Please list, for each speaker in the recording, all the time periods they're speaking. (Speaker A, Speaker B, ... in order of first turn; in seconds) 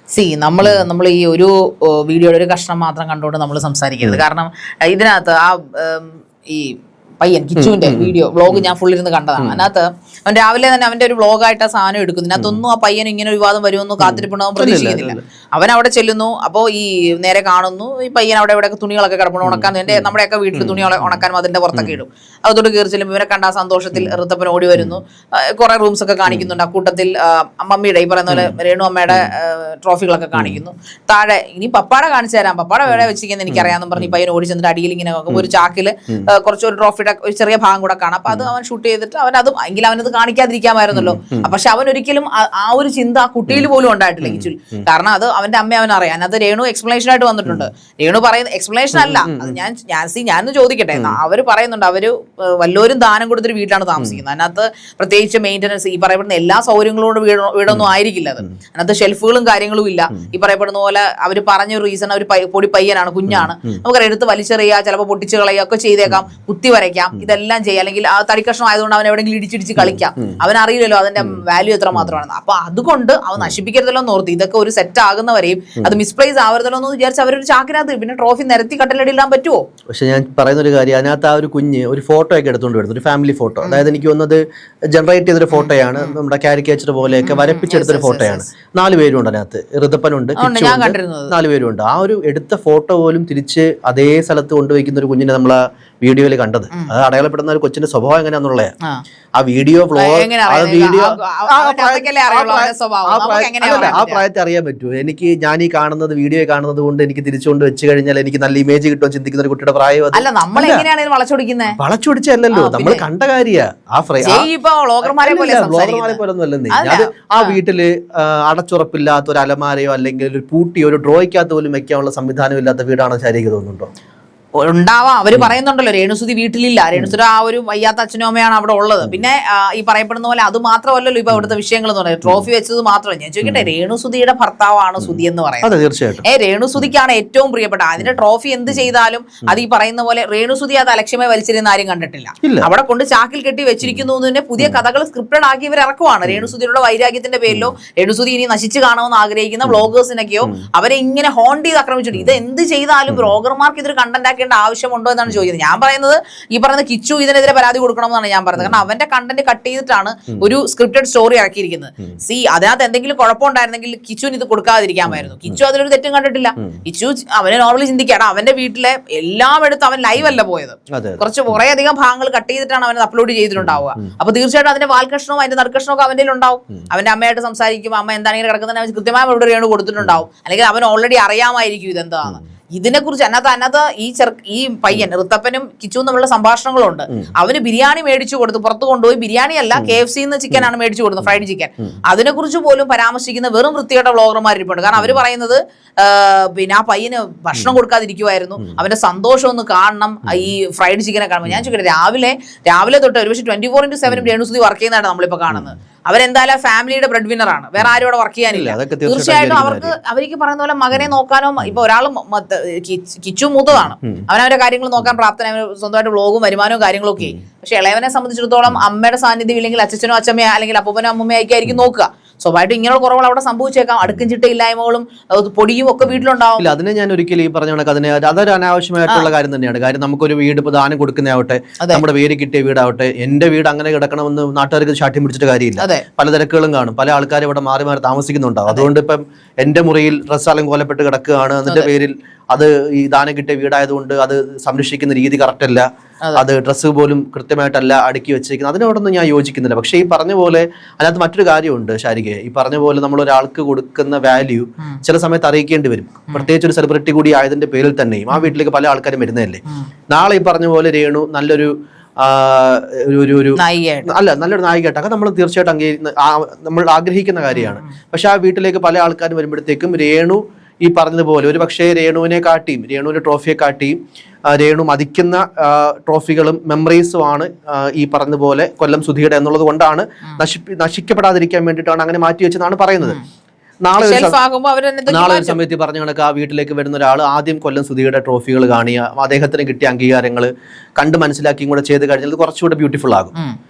Speaker A: 0.1-79.6, 85.5-86.2, 87.2-88.5, 90.4-91.3, 100.0-104.2, 110.1-111.8, 112.5-113.0, 114.2-116.2, 116.7-117.6, 124.5-135.7, 136.2-226.7, 235.8-236.0, 263.6-264.1, 267.5-267.9, 283.9-285.6
Speaker B: 7.6-8.7, 9.4-9.7, 12.3-12.6, 14.0-15.2, 19.4-21.2, 21.7-22.0, 26.3-26.5, 28.3-28.6, 30.3-30.6, 32.9-34.1, 40.9-41.5, 44.2-44.5, 48.9-49.6, 54.0-54.2, 63.3-63.5, 69.8-70.3, 71.9-72.2, 79.9-84.4, 84.9-98.7, 99.3-110.8, 111.8-114.5, 115.0-123.9, 133.4-133.7, 135.0-136.2, 142.4-142.7, 146.3-146.5, 147.5-147.7, 165.1-165.5, 170.9-171.6, 173.6-174.0, 208.5-209.9, 226.0-283.2, 283.8-284.4, 285.1-293.3